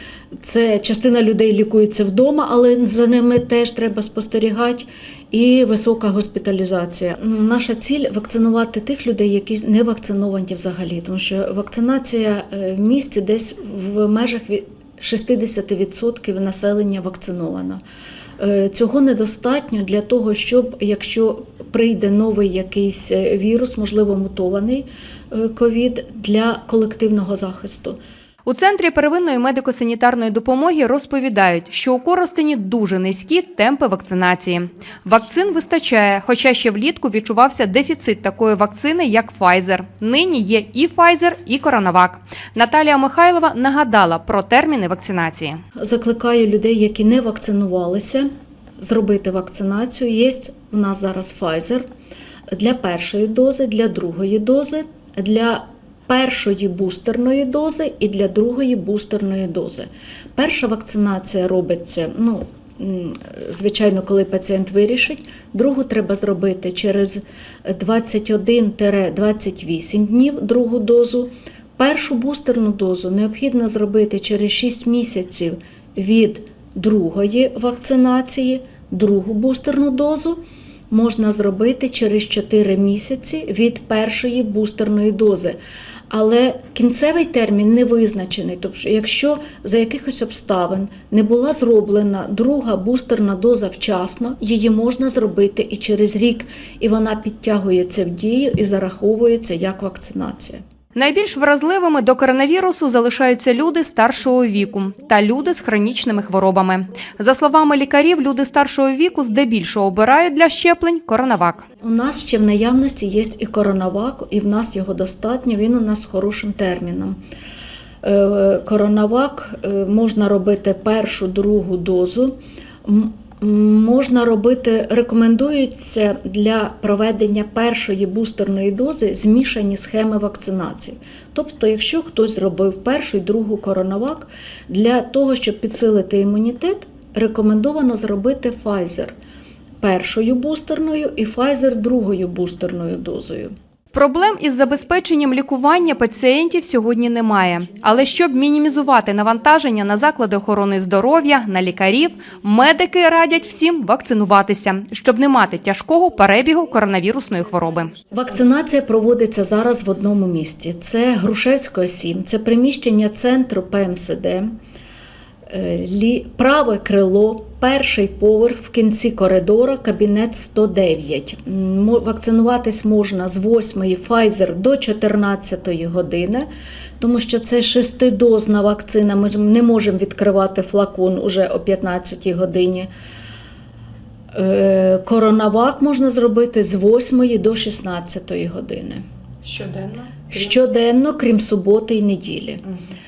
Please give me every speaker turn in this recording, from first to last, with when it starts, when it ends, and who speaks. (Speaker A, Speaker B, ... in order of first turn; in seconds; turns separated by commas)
Speaker A: 0.4-17.8, Speaker A: 18.4-28.0, Speaker B: 28.5-45.6, Speaker A: 45.8-48.3, Speaker A: 48.8-51.8, Speaker A: 52.5-80.4, Speaker A: 80.9-85.6, Speaker A: 86.1-100.6, Speaker B: 101.0-111.7, Speaker A: 111.8-117.2, Speaker A: 118.0-139.1, Speaker A: 139.8-143.5, Speaker B: 143.9-158.0, Speaker A: 158.1-164.5, Speaker A: 165.5-176.5, Speaker A: 177.0-182.9, Speaker A: 184.3-189.0, Speaker B: 189.5-190.2, Speaker A: 190.3-192.6